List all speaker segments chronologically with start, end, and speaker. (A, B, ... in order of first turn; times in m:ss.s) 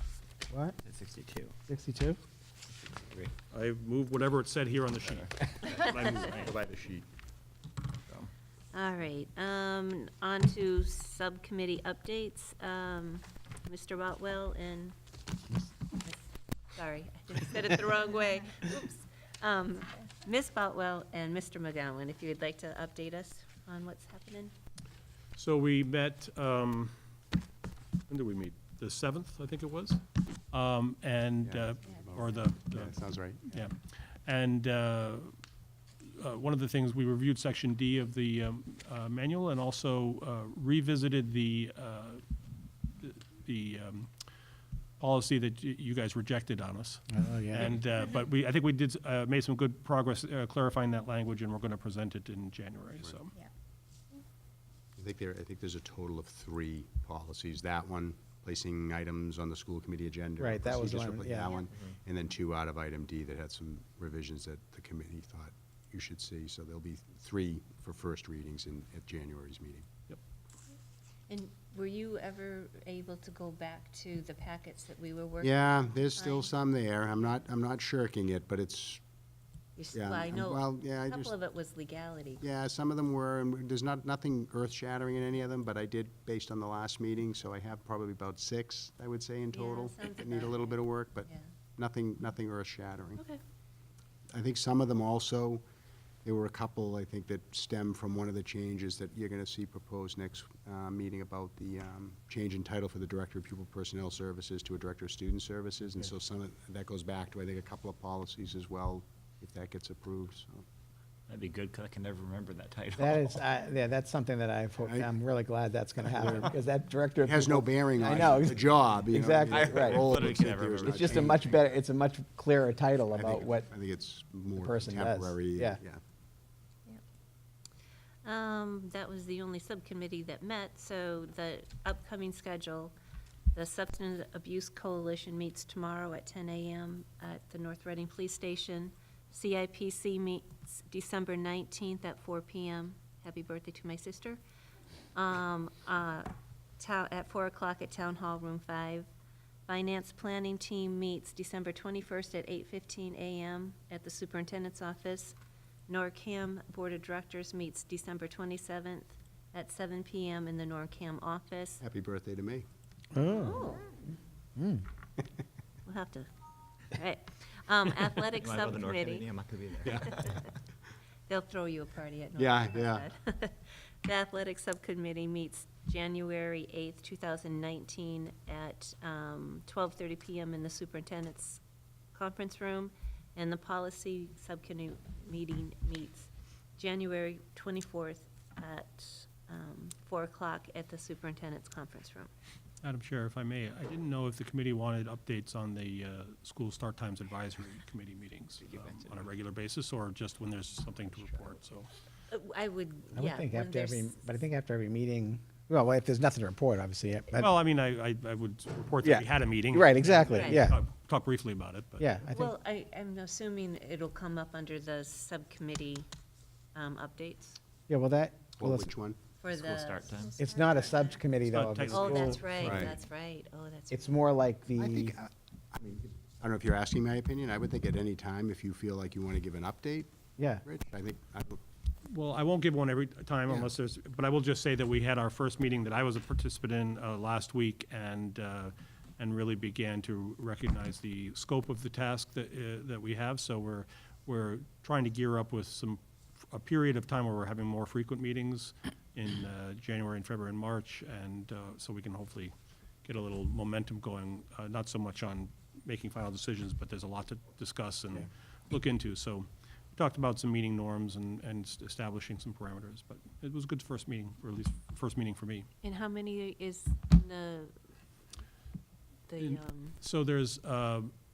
0:00.5-0:00.8 A
0:00.8-0:01.6 B
0:01.7-0:02.2 A
0:03.0-0:03.3 B
0:03.5-0:06.5 C
0:05.0-0:06.5 B
0:06.3-0:07.1 D
0:08.7-0:15.0 E
0:16.0-0:24.5 E
0:25.3-0:26.9 C
0:28.1-0:35.3 C
0:31.4-0:33.6 D
0:36.0-0:42.2 C
0:43.0-0:44.1 C
0:45.0-0:53.3 C
0:47.1-0:47.8 A
0:55.0-1:09.9 D
1:00.4-1:01.6 A
1:11.3-1:16.5 E
1:15.4-1:19.0 D
1:19.8-1:22.4 E
1:19.9-1:21.3 D
1:22.4-1:33.2 D
1:29.5-1:31.5 E
1:34.3-1:35.6 D
1:36.2-1:50.6 D
1:51.3-1:53.4 B
1:53.0-2:00.2 A
1:54.8-1:55.1 D
1:56.0-1:56.5 D
1:57.2-2:01.4 D
1:58.2-1:58.5 B
1:59.4-2:01.6 B
2:00.8-2:03.7 A
2:03.1-2:06.0 D
2:04.6-2:05.8 A
2:08.2-2:12.9 E
2:13.5-2:24.4 E
2:25.1-2:29.1 E
2:29.7-2:35.3 E
2:35.9-2:41.8 E
2:41.8-2:42.6 D
2:43.1-2:43.7 A
2:43.3-2:44.0 E
2:44.6-2:44.8 A
2:45.8-2:46.3 E
2:46.9-2:49.3 E
2:48.3-2:50.4 B
2:49.8-2:50.3 D
2:49.8-2:50.5 E
2:51.3-3:01.6 E
2:52.4-2:53.0 D
3:02.1-3:12.3 E
3:12.8-3:21.9 C
3:18.6-3:19.3 B
3:22.3-3:24.2 E
3:23.1-3:27.5 A
3:27.4-3:32.1 C
3:29.0-3:30.8 A
3:30.3-3:30.6 E
3:32.0-3:32.5 A
3:32.3-3:36.1 E
3:36.7-3:37.6 E
3:37.9-3:38.9 A
3:38.6-3:39.2 D
3:39.4-3:41.0 E
3:39.5-3:40.4 B
3:40.4-3:42.9 A
3:41.4-3:42.8 C
3:41.9-3:44.2 E
3:42.6-3:42.9 D
3:43.9-3:45.2 A
3:44.8-3:50.1 D
3:50.4-3:50.6 A
3:50.6-3:51.6 D
3:52.0-4:25.7 C
4:25.8-4:27.7 E
4:29.3-4:30.0 E
4:29.4-4:31.1 C